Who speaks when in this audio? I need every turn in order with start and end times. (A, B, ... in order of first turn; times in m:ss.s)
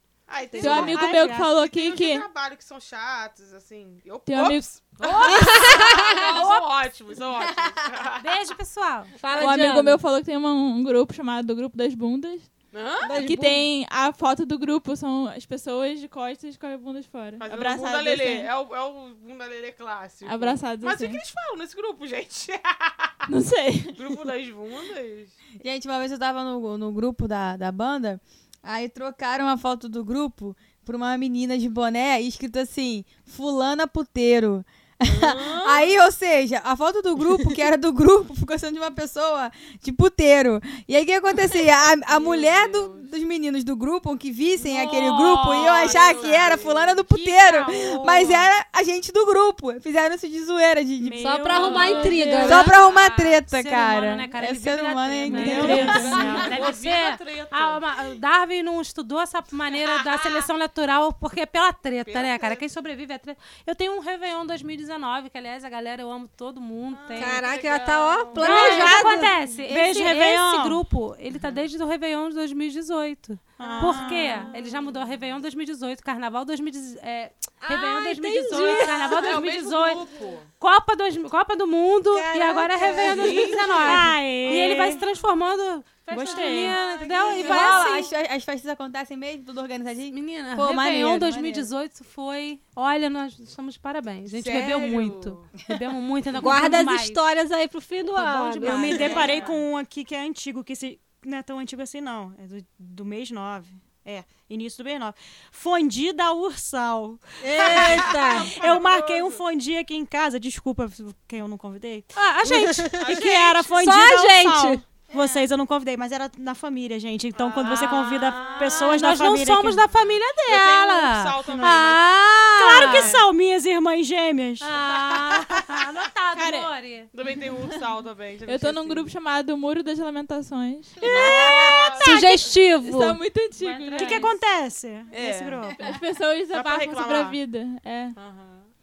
0:00.3-0:08.3 A
0:00.6-0:01.0 B
0:00.6-0:01.3 C
0:00.6-0:02.2 D
0:04.2-0:04.8 D
0:05.0-0:06.7 E
0:05.2-0:06.2 B
0:08.2-0:09.1 E
0:09.2-0:10.0 B
0:09.3-0:12.5 D
0:12.7-0:13.2 A
0:13.0-0:13.6 B
0:13.1-0:18.5 D
0:17.4-0:23.2 A
0:20.2-0:21.2 D
0:23.3-0:24.0 D
0:23.9-0:25.3 A
0:25.6-0:51.4 F
0:35.0-0:35.9 A
0:42.1-0:43.1 A
0:44.6-0:48.3 A
0:47.3-0:48.4 E
0:51.0-0:52.6 C
0:51.2-0:52.7 B
0:51.5-0:52.7 D
0:52.4-0:56.5 F
0:52.5-1:07.4 E
0:55.3-0:56.5 D
0:55.3-0:58.2 A
0:59.8-1:00.4 A
1:02.0-1:02.6 A
1:06.9-1:08.9 A
1:07.2-1:09.3 B
1:08.4-1:20.0 E
1:08.4-1:10.8 C
1:11.4-1:11.6 A
1:13.6-1:14.6 C
1:13.6-1:14.8 A
1:17.6-1:19.2 B
1:18.5-1:20.5 A
1:20.6-1:28.1 E
1:22.1-1:24.1 B
1:22.9-1:24.0 A
1:23.7-1:25.0 C
1:26.1-1:26.8 C
1:26.2-1:27.7 A
1:27.3-1:31.7 F
1:27.4-1:27.9 B
1:30.1-1:37.2 E
1:34.3-1:35.4 A
1:36.4-1:39.2 B
1:38.1-1:39.4 E
1:38.6-1:52.1 C
1:38.7-1:39.6 A
1:47.4-1:48.6 B
1:47.5-1:49.4 A
1:52.1-1:53.6 E
1:52.5-1:53.1 B
1:53.0-1:53.7 A
1:53.0-1:59.8 C
1:53.8-1:54.8 B
1:55.2-1:55.4 F
1:57.3-1:59.1 A
1:57.8-2:03.2 E
1:59.8-2:02.0 A
2:01.5-2:01.9 C
2:02.5-2:05.5 C
2:02.6-2:03.2 A
2:04.6-2:07.1 E
2:06.3-2:06.7 D
2:07.1-2:09.1 A
2:08.4-2:14.3 D
2:11.0-2:12.3 A
2:11.0-2:13.2 B
2:13.6-2:14.4 E
2:13.9-2:15.9 C
2:15.1-2:15.7 A
2:15.7-2:18.2 D
2:16.5-2:17.4 A
2:18.1-2:18.7 A